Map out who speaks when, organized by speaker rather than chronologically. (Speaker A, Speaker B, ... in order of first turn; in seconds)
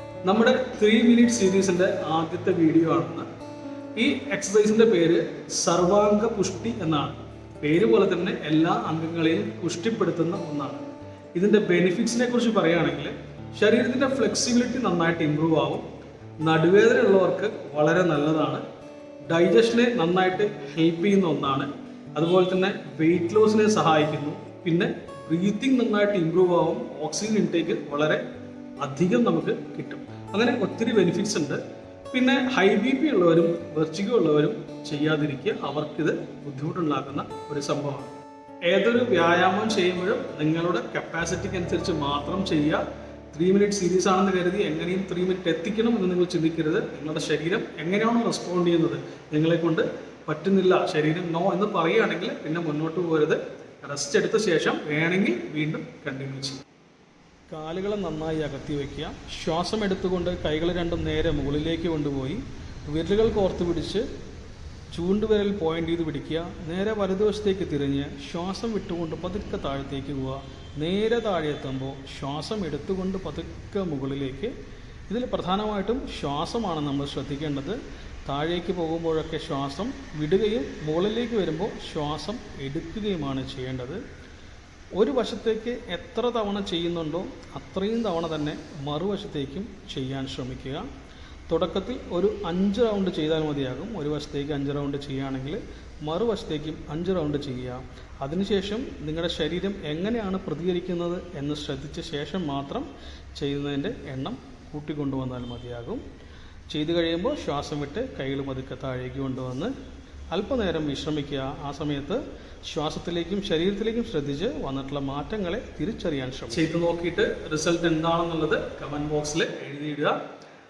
Speaker A: 0.2-3.3, 4.0-15.8, 16.4-18.6, 19.3-28.2, 28.8-31.6, 32.1-38.1, 38.7-56.6, 57.5-64.1, 64.9-74.5, 75.1-84.0, 85.0-90.9, 91.5-106.0, 106.7-109.7, 110.3-120.2